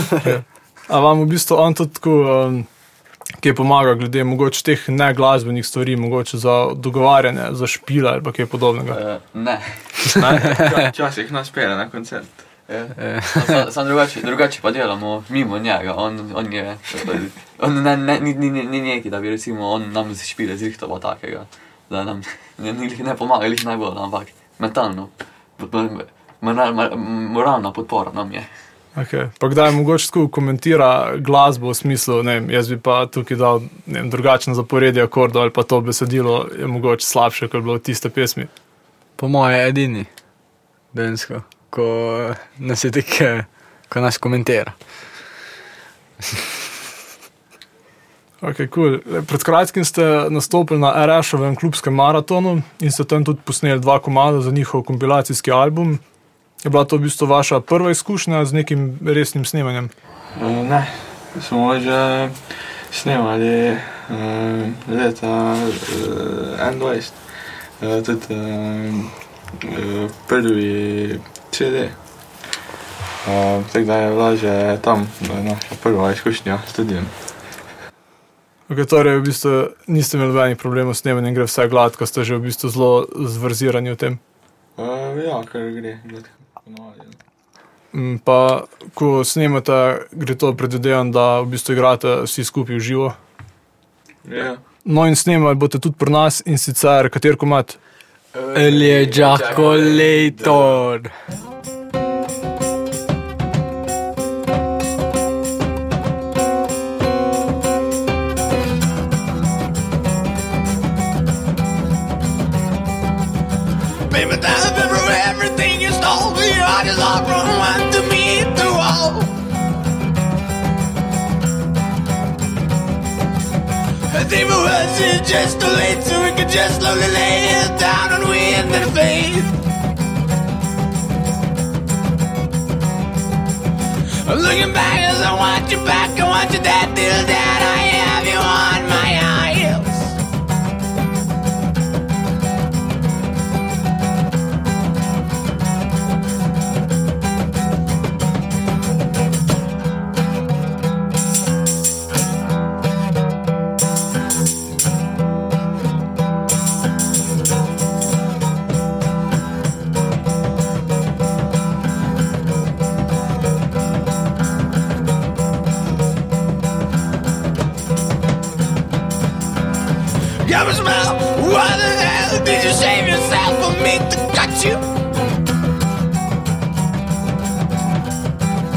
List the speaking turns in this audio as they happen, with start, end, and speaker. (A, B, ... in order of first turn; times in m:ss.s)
0:00.2-0:02.7 A
0:03.4-0:09.0 A
0:08.9-0:10.2 B
0:10.1-0:12.5 C
0:12.7-0:28.5 B
0:13.0-0:13.6 D
0:28.9-0:38.5 A
0:39.2-0:40.1 D
0:40.9-0:44.8 D
0:48.4-0:56.0 A
0:56.6-0:59.9 A
1:00.3-1:12.0 C
1:13.2-1:17.1 C
1:18.7-1:24.2 A
1:24.8-1:27.2 C
1:27.9-1:33.2 A
1:34.2-1:34.6 C
1:34.8-1:37.8 A
1:38.3-1:40.6 B
1:38.5-1:41.1 D
1:54.1-1:59.4 E
2:04.1-2:09.5 E
2:14.2-2:20.2 E
2:50.4-2:54.8 E